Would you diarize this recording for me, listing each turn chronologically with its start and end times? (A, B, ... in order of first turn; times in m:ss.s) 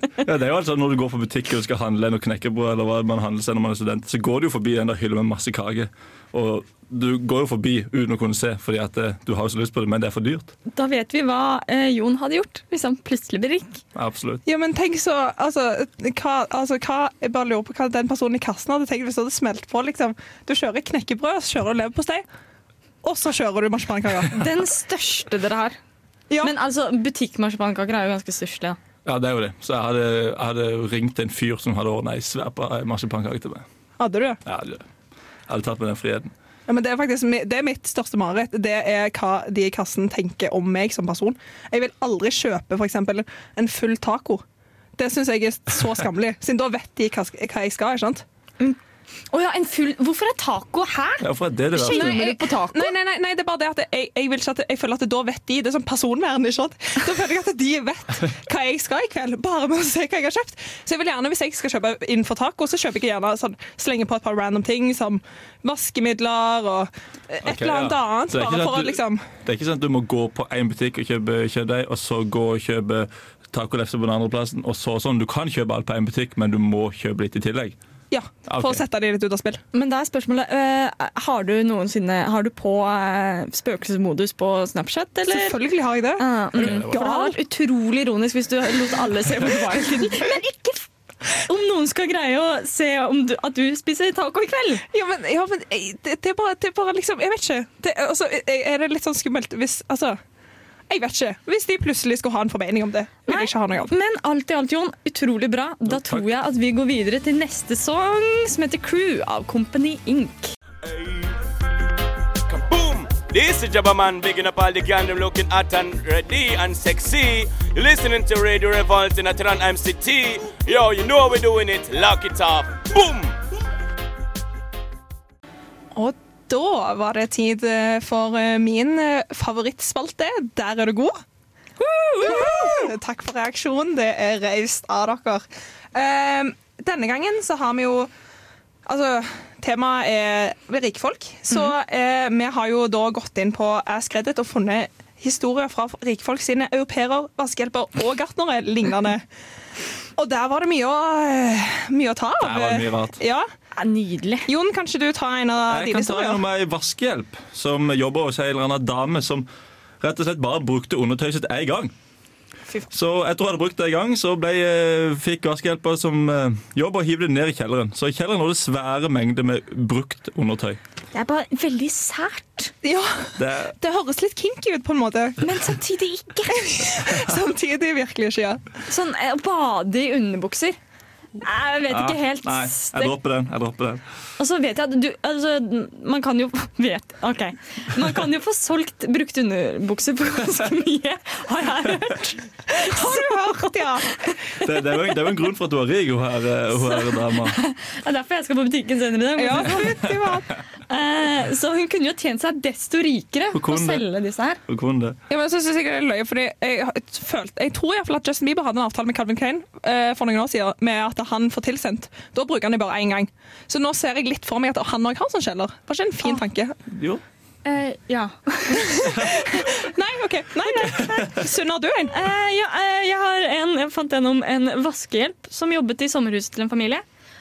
0:00.2-0:10.5 A
0:10.7-0:13.8 B
0:13.9-0:14.4 A
0:14.4-0:22.2 C
0:23.0-0:24.4 C
0:24.3-0:25.8 B
0:26.4-0:28.8 B
0:29.0-0:33.6 A
0:34.0-0:34.4 C
0:34.4-0:34.8 A
0:35.5-0:36.3 A
0:36.7-0:44.4 C
0:45.0-0:48.2 C
0:49.3-0:52.9 B
0:51.2-0:52.2 A
0:51.8-1:09.2 C
1:07.4-1:17.8 A
1:18.1-1:19.6 C
1:18.5-1:18.8 A
1:19.7-1:25.6 B
1:25.3-1:27.4 C
1:26.2-1:34.8 B
1:26.6-1:26.9 A
1:34.9-1:40.2 C
1:40.9-1:43.9 C
1:43.3-1:50.5 B
1:45.9-1:46.2 A
1:50.8-1:51.3 D
1:52.5-2:03.4 D
2:05.9-2:11.2 C
2:11.8-2:15.4 C
2:12.2-2:12.9 B
2:15.9-2:18.1 C
2:18.8-2:29.2 C
2:30.2-2:33.5 C
2:32.4-2:33.2 A
2:33.8-2:34.5 B
2:34.5-2:36.4 C
2:35.7-2:39.5 A
2:40.0-2:41.9 A
2:42.9-2:50.8 A
2:51.1-2:52.7 B
2:52.8-2:55.4 C
2:53.4-2:53.8 A
2:55.4-2:56.8 B
2:56.5-2:58.6 C
2:58.9-3:00.8 B
3:01.4-3:03.1 B
3:01.9-3:04.0 A
3:04.4-3:14.4 B
3:12.7-3:14.1 C
3:14.6-3:17.6 A
3:16.8-3:20.2 B
3:19.4-3:20.5 C
3:20.9-3:24.6 B
3:23.5-3:24.0 A
3:24.7-3:25.2 A
3:25.3-3:36.8 C
3:36.9-3:37.2 A
3:37.6-3:39.7 B
3:39.0-3:42.1 C
3:40.6-3:41.4 B
3:42.1-3:47.0 B